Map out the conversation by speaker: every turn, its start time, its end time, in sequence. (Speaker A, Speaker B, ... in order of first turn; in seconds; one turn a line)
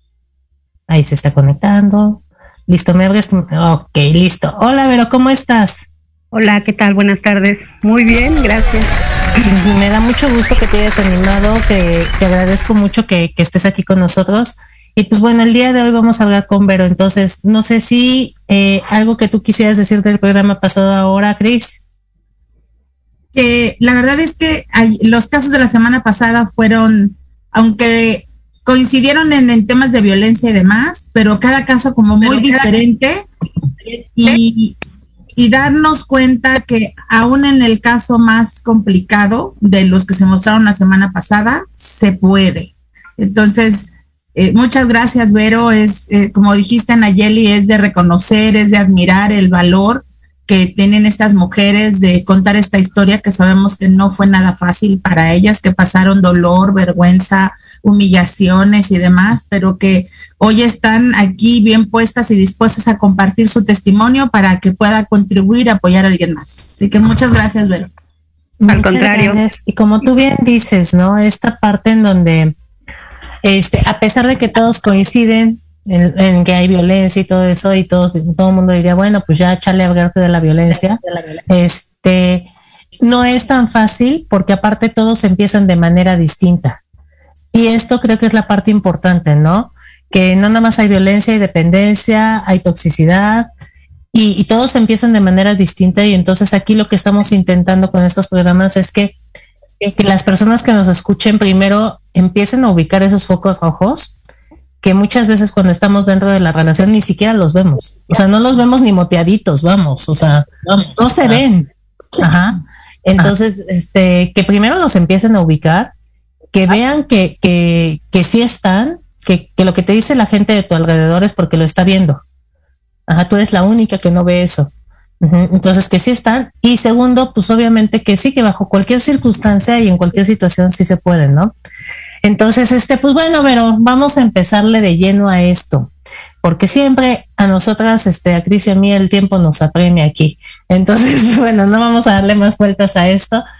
Speaker A: 0.9-5.9
Speaker B: 6.3-8.9
Speaker A: 9.4-21.8
Speaker C: 23.3-33.3
Speaker B: 32.2-32.8
Speaker C: 33.9-34.8
Speaker C: 35.4-67.9
Speaker A: 68.6-72.5
Speaker B: 68.7-69.4
Speaker A: 73.4-82.5
Speaker A: 83.0-86.8
Speaker A: 87.5-93.5
Speaker A: 94.1-99.2
Speaker A: 99.8-104.1
Speaker A: 104.8-115.9
Speaker A: 116.5-122.2
Speaker A: 123.1-131.5
Speaker A: 132.2-135.9
Speaker A: 136.4-143.4